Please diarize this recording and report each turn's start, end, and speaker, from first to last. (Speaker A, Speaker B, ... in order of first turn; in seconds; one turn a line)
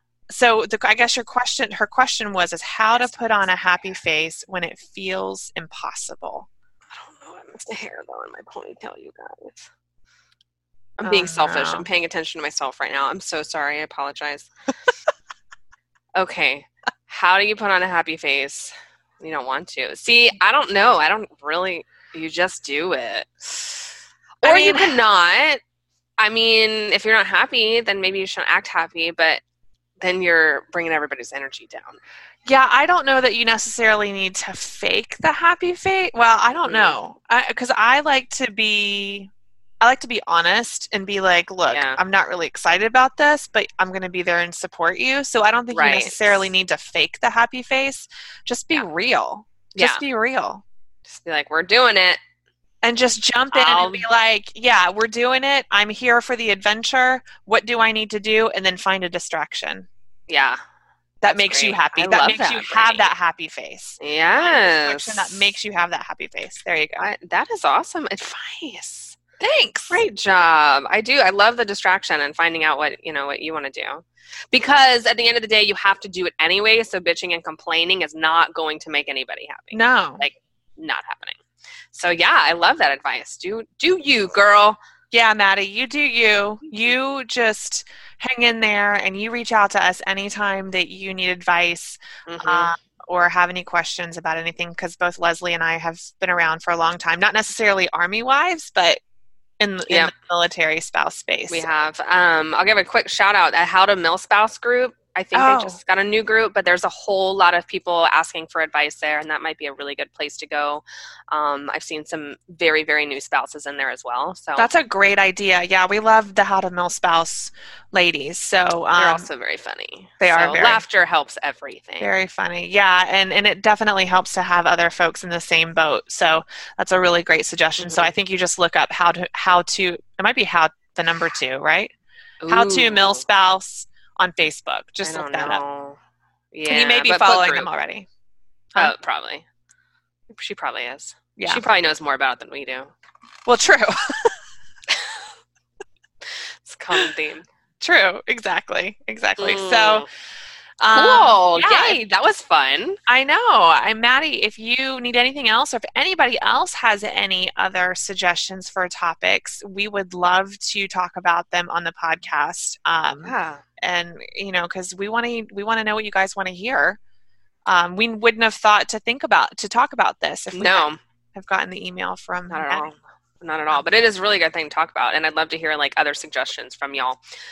Speaker A: 0.3-6.5
Speaker B: 2.9-4.0
Speaker B: 6.9-9.7
Speaker B: 11.0-14.5
Speaker A: 11.0-11.9
Speaker B: 16.1-23.8
Speaker B: 24.4-25.6
Speaker A: 24.4-25.0
Speaker B: 26.2-29.4
Speaker B: 30.0-32.0
Speaker A: 32.5-50.6
Speaker B: 36.6-37.0
Speaker B: 41.7-42.0
Speaker B: 45.7-46.5
Speaker B: 49.7-50.0
Speaker B: 51.0-52.2
Speaker A: 52.8-59.9
Speaker B: 53.5-54.0
Speaker B: 60.3-60.6
Speaker A: 61.2-67.1
Speaker B: 61.2-63.1
Speaker B: 64.0-65.5
Speaker B: 67.0-69.2
Speaker A: 69.4-70.0
Speaker B: 69.9-81.4
Speaker A: 79.7-80.2
Speaker B: 81.9-84.8
Speaker A: 85.1-99.0
Speaker B: 92.3-92.7
Speaker A: 99.6-101.6
Speaker B: 101.5-114.7
Speaker A: 105.3-105.8
Speaker A: 114.5-119.3
Speaker B: 119.0-122.1
Speaker A: 120.2-120.8
Speaker A: 122.0-131.9
Speaker B: 127.8-128.1
Speaker B: 132.4-133.2
Speaker A: 132.5-135.6
Speaker B: 135.0-136.0
Speaker B: 136.5-137.7
Speaker A: 136.7-138.1
Speaker B: 138.7-139.4
Speaker B: 140.3-142.9
Speaker A: 141.4-141.6
Speaker A: 143.4-144.3
Speaker B: 146.6-147.4
Speaker A: 147.8-150.1
Speaker B: 149.4-150.1
Speaker A: 150.8-152.0
Speaker B: 150.9-153.0
Speaker A: 153.1-167.0
Speaker B: 163.2-163.6
Speaker A: 167.7-172.9
Speaker B: 170.5-171.0
Speaker B: 172.5-177.2